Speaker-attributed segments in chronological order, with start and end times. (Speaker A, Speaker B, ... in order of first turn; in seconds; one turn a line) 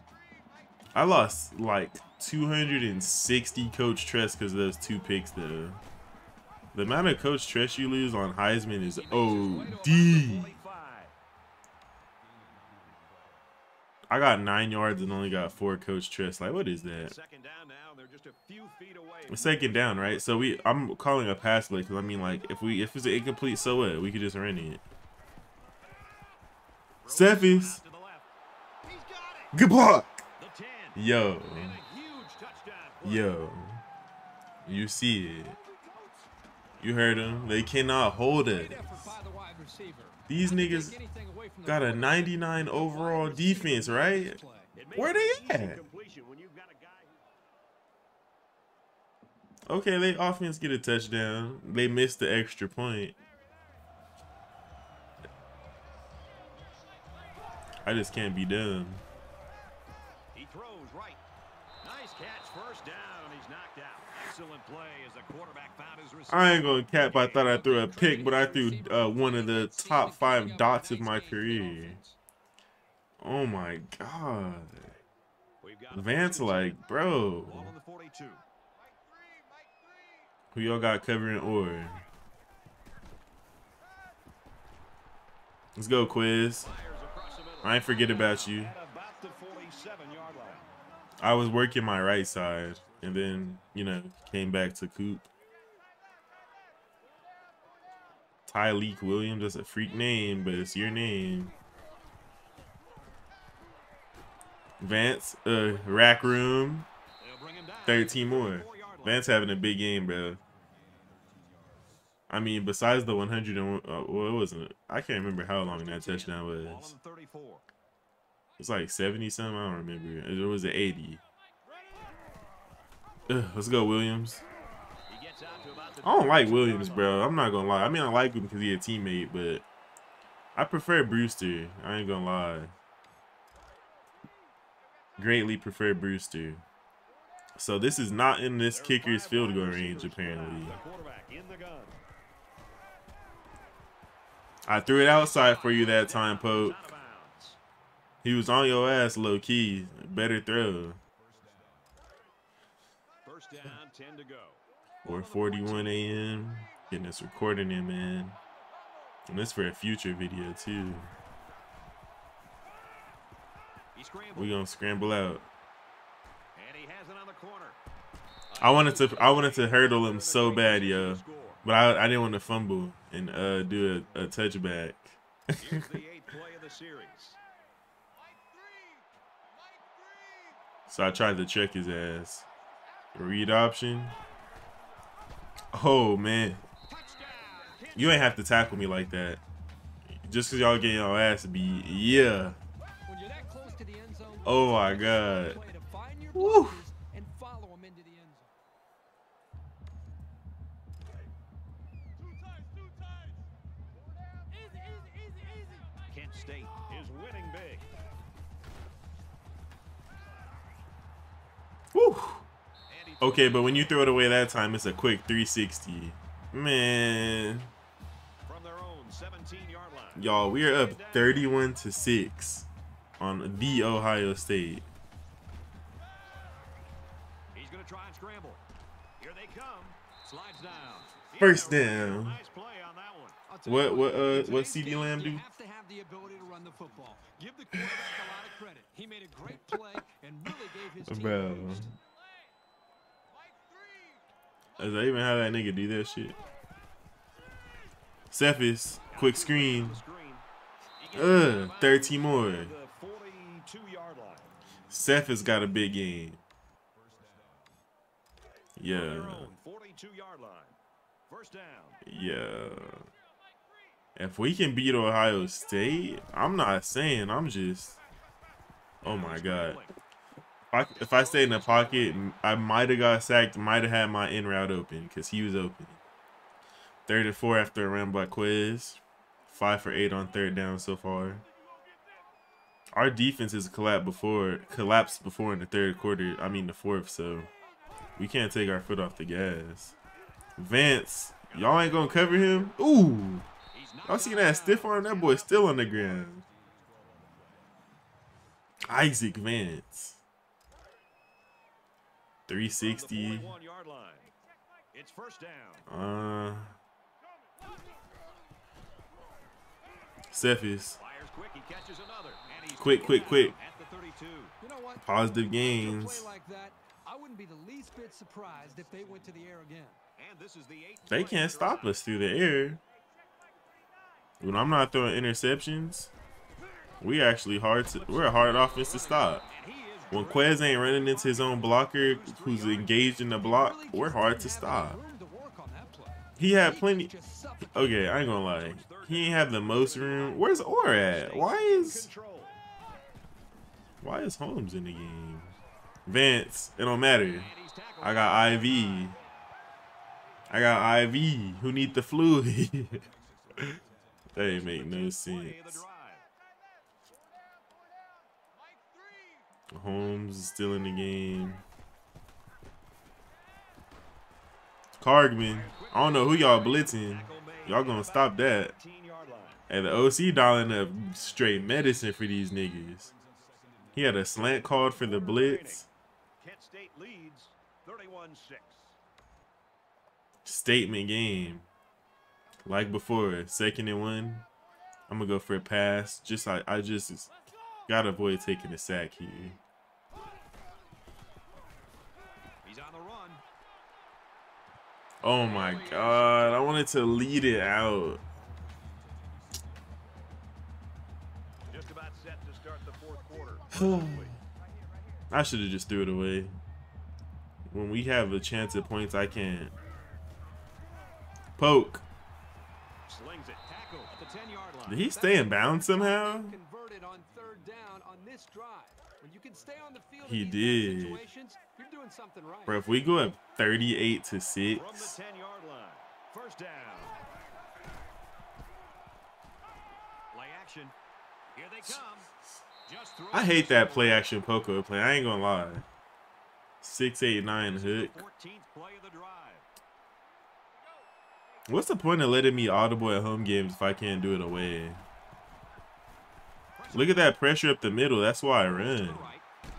Speaker A: 0.9-5.8
Speaker A: 6.7-10.6
Speaker B: 8.9-11.2
Speaker A: 14.1-17.1
Speaker B: 17.0-20.2
Speaker A: 19.3-24.8
Speaker B: 27.0-28.3
Speaker A: 27.1-27.8
Speaker B: 28.8-29.5
Speaker A: 29.5-30.2
Speaker B: 30.4-31.0
Speaker A: 30.9-31.8
Speaker B: 31.5-33.4
Speaker A: 33.0-33.8
Speaker A: 34.6-35.6
Speaker B: 36.8-37.2
Speaker A: 36.8-39.1
Speaker C: 38.4-44.7
Speaker A: 40.3-41.0
Speaker A: 41.6-44.4
Speaker B: 44.8-47.2
Speaker A: 45.0-45.8
Speaker A: 49.7-53.2
Speaker A: 57.9-59.0
Speaker B: 60.3-61.2
Speaker B: 61.8-67.6
Speaker A: 66.3-72.0
Speaker C: 67.4-72.2
Speaker A: 73.2-74.9
Speaker B: 75.6-76.9
Speaker A: 75.9-77.7
Speaker B: 77.5-78.4
Speaker A: 80.5-82.0
Speaker A: 85.8-86.7
Speaker B: 86.6-90.7
Speaker A: 87.6-88.7
Speaker A: 91.2-95.3
Speaker A: 98.5-101.5
Speaker A: 104.8-106.9
Speaker B: 107.2-109.3
Speaker A: 107.9-110.4
Speaker A: 112.3-116.9
Speaker B: 115.6-117.7
Speaker A: 118.6-121.2
Speaker A: 123.3-124.4
Speaker B: 125.1-127.3
Speaker A: 126.0-129.7
Speaker A: 130.6-132.7
Speaker A: 135.2-136.6
Speaker A: 137.6-140.8
Speaker B: 138.7-142.0
Speaker A: 144.7-146.9
Speaker B: 145.2-147.6
Speaker A: 148.2-151.0
Speaker B: 153.2-156.0
Speaker A: 155.1-158.4
Speaker A: 159.3-161.1
Speaker B: 163.9-164.6
Speaker A: 164.3-165.5
Speaker B: 166.6-167.8
Speaker B: 168.5-171.6
Speaker A: 168.6-175.9
Speaker B: 175.6-177.4
Speaker A: 180.9-182.4
Speaker A: 183.2-184.2
Speaker A: 185.7-186.6
Speaker B: 186.9-188.4
Speaker A: 187.9-189.4
Speaker A: 190.2-192.6
Speaker C: 193.1-198.5
Speaker A: 194.4-195.6
Speaker A: 196.4-196.8
Speaker B: 206.1-207.9
Speaker A: 211.9-212.5
Speaker B: 212.9-214.2
Speaker A: 213.2-217.7
Speaker B: 218.4-221.6
Speaker A: 220.2-222.7
Speaker A: 223.2-224.9
Speaker B: 227.5-228.6
Speaker B: 229.2-233.4
Speaker A: 231.4-232.4
Speaker C: 233.5-241.9
Speaker A: 233.7-235.4
Speaker A: 241.1-241.9
Speaker A: 244.8-246.4
Speaker A: 248.3-250.0
Speaker B: 249.1-250.4
Speaker B: 251.0-254.5
Speaker A: 251.1-252.7
Speaker A: 254.9-256.4
Speaker A: 258.8-259.5
Speaker B: 258.9-260.8
Speaker B: 261.3-262.0
Speaker A: 262.1-263.1
Speaker A: 264.2-268.0
Speaker B: 269.0-269.9
Speaker A: 269.0-269.8
Speaker A: 270.7-276.0
Speaker B: 271.0-272.2
Speaker A: 277.1-281.4
Speaker A: 282.9-287.5
Speaker A: 288.2-290.0
Speaker A: 290.6-293.5
Speaker B: 291.5-292.8
Speaker B: 293.7-296.3
Speaker A: 294.1-296.4
Speaker A: 298.9-300.2
Speaker A: 302.5-303.5
Speaker B: 302.8-304.3
Speaker B: 304.9-305.9
Speaker A: 305.9-306.8
Speaker A: 310.3-311.0
Speaker B: 311.0-314.5
Speaker A: 312.8-313.6
Speaker C: 314.6-320.0
Speaker A: 315.0-316.3
Speaker B: 320.2-322.0
Speaker A: 321.1-322.8
Speaker A: 324.4-326.1
Speaker A: 327.0-329.5
Speaker B: 327.9-333.2
Speaker A: 330.1-335.0
Speaker C: 333.3-337.9
Speaker A: 336.4-337.1
Speaker A: 337.7-342.1
Speaker B: 338.2-342.6
Speaker A: 344.0-345.5
Speaker A: 346.1-349.2
Speaker B: 347.3-349.2
Speaker A: 350.5-353.8
Speaker A: 354.3-355.8
Speaker B: 354.3-356.3
Speaker A: 359.7-361.6
Speaker A: 365.0-368.7
Speaker B: 365.4-369.7
Speaker A: 369.7-373.1
Speaker B: 373.1-375.9
Speaker A: 373.9-375.9
Speaker B: 376.4-378.9
Speaker A: 380.4-381.7
Speaker A: 382.6-384.5
Speaker A: 385.1-387.3
Speaker A: 387.9-389.6
Speaker B: 392.6-393.4
Speaker A: 395.2-398.2
Speaker B: 395.4-396.8
Speaker B: 401.7-404.4
Speaker A: 403.7-404.4
Speaker A: 405.3-406.6
Speaker A: 407.7-409.7
Speaker A: 411.6-412.1
Speaker B: 413.1-415.1
Speaker A: 414.9-416.6
Speaker C: 415.1-422.8
Speaker A: 420.2-421.2
Speaker A: 422.7-425.1
Speaker B: 424.7-427.2
Speaker B: 430.3-430.9
Speaker B: 431.5-432.3
Speaker B: 432.9-434.3
Speaker A: 433.3-435.9
Speaker A: 436.8-438.2
Speaker B: 437.6-439.7
Speaker A: 441.7-445.0
Speaker B: 446.8-447.3
Speaker A: 446.9-449.3
Speaker B: 448.6-449.4